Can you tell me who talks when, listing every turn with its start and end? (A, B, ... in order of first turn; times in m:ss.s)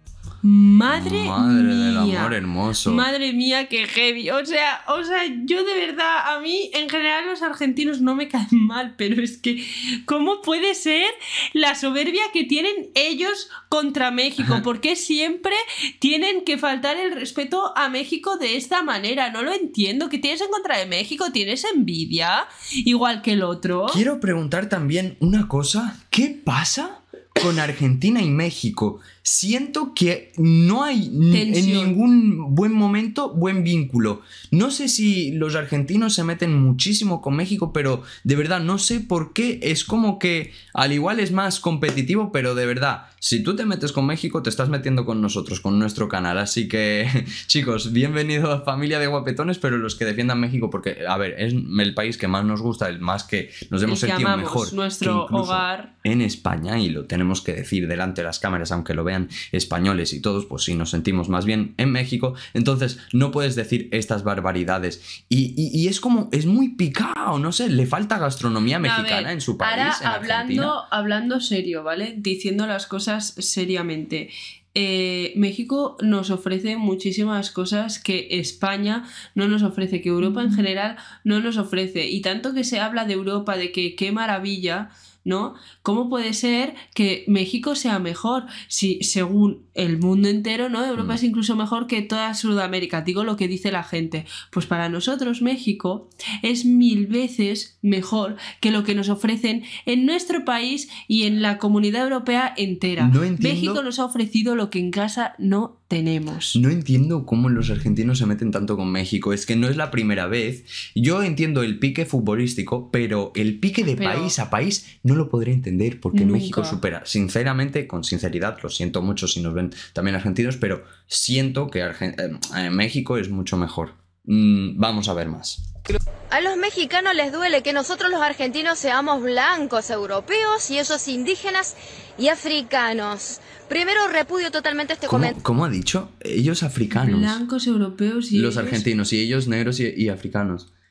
0:00.4-0:02.3 A
0:00.9-0:03.1 B
0:02.9-0:24.0 A
0:23.9-1:10.8 B
0:31.3-0:32.0 A
0:53.9-0:55.9 A
1:08.8-1:46.6 A
1:43.0-1:43.8 B
1:46.6-2:05.6 B
1:53.9-1:54.4 A
1:56.1-1:56.8 A
2:06.3-2:15.4 C
2:15.1-2:17.4 B
2:16.9-2:18.9 A
2:18.3-2:20.7 B